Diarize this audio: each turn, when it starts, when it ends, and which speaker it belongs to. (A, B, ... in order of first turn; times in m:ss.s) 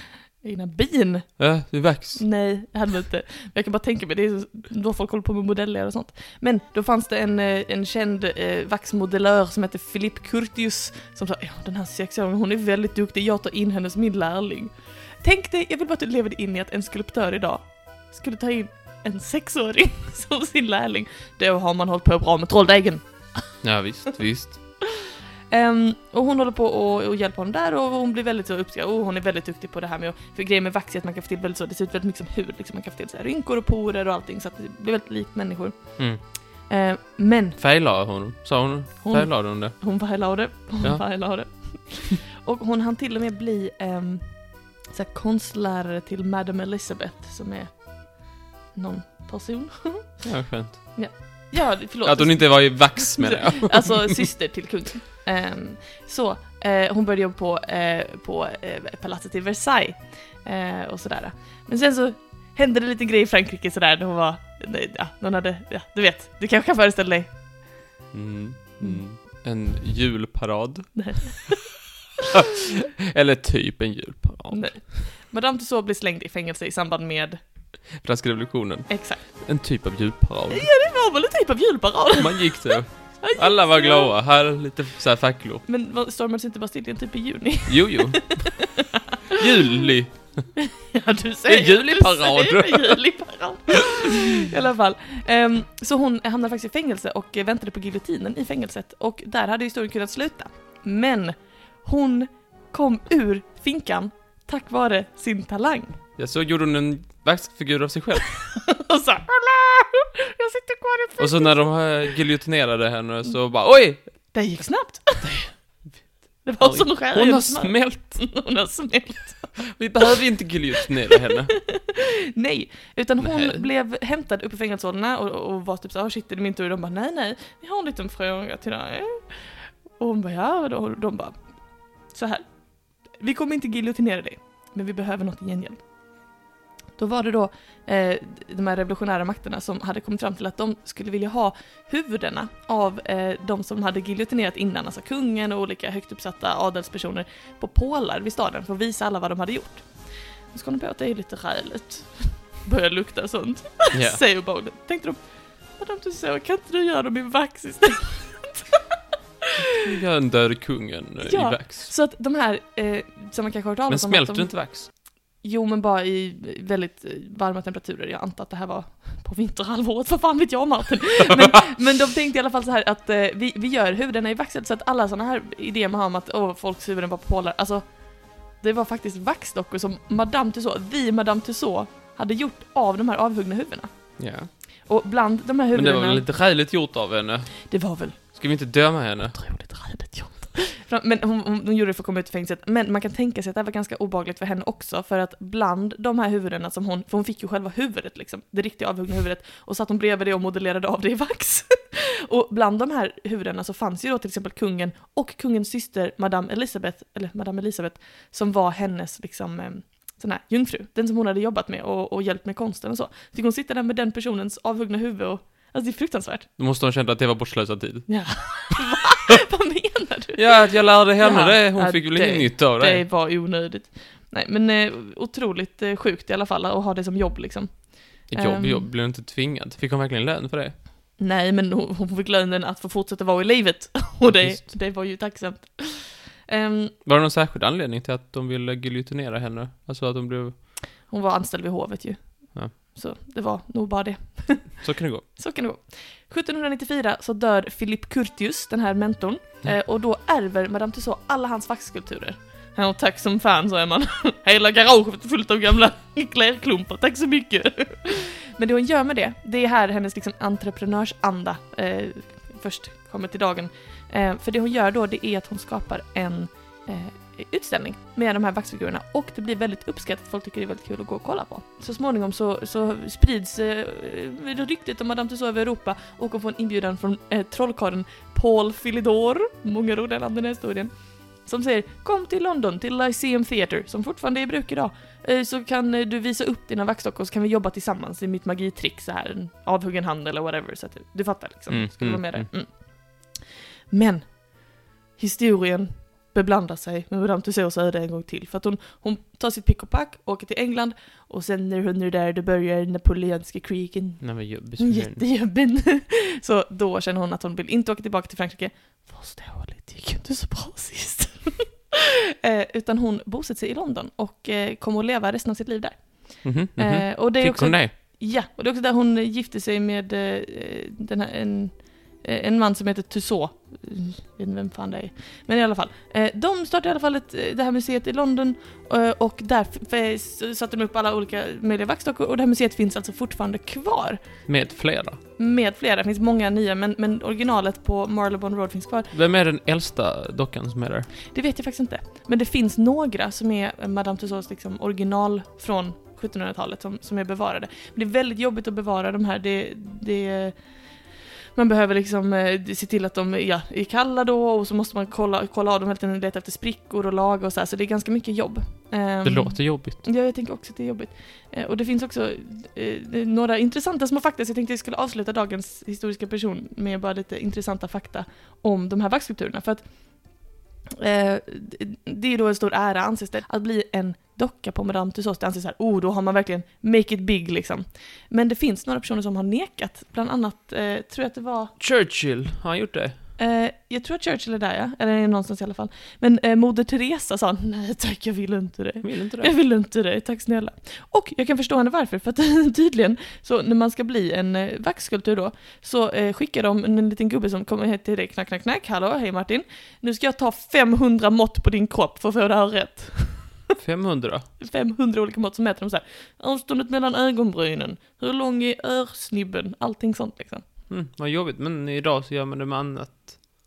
0:00.4-0:23.8 A
0:01.4-0:02.2 B
0:23.6-0:24.6 B
0:25.5-0:37.6 A
0:37.6-0:40.2 B
0:39.0-1:07.3 A
0:40.8-0:41.6 B
0:50.2-0:51.5 B
0:52.0-0:54.3 B
1:08.1-1:11.3 B
1:10.9-1:11.8 A
1:13.1-1:14.9 B
1:14.5-1:17.4 A
1:18.0-1:20.7 B
1:18.9-1:19.2 A
1:20.5-1:24.1 A
1:22.2-1:25.6 B
1:25.6-1:28.6 A
1:27.7-1:28.6 B
1:29.3-1:30.5 B
1:30.6-1:46.0 A
1:31.5-1:33.0 B
1:46.2-1:48.4 B
1:48.5-1:51.8 A
1:51.2-1:54.1 B
1:54.3-1:55.4 A
1:55.2-1:58.2 B
1:56.4-1:59.7 A
1:59.6-2:01.6 B
2:01.6-2:15.8 A
2:03.2-2:03.6 B
2:17.0-2:38.8 A
2:33.9-2:34.2 B
2:39.8-2:41.9 B
2:41.2-3:06.3 A
2:43.9-2:44.9 B
3:04.2-3:04.5 B
3:05.7-3:09.4 B
3:07.7-3:08.4 A
3:09.3-3:36.5 A
3:36.6-3:38.1 B
3:38.1-3:48.9 A
3:40.3-3:43.0 B
3:48.3-3:50.8 B
3:51.2-3:56.9 A
3:54.3-3:54.7 B
3:57.0-4:00.6 B
4:01.0-5:34.4 A
4:04.8-4:05.2 B
4:51.7-4:52.5 B
5:04.2-5:05.2 B
5:16.4-5:17.9 B
5:34.4-5:35.2 B
5:35.4-5:39.1 A
5:39.1-5:41.1 B
5:41.3-6:10.5 A
5:59.2-6:00.0 B
6:11.0-6:21.8 A
6:21.8-6:23.2 B
6:23.4-6:43.6 A
6:29.0-6:29.6 B
6:43.8-6:44.4 B
6:44.6-6:50.6 A
6:50.9-6:53.4 B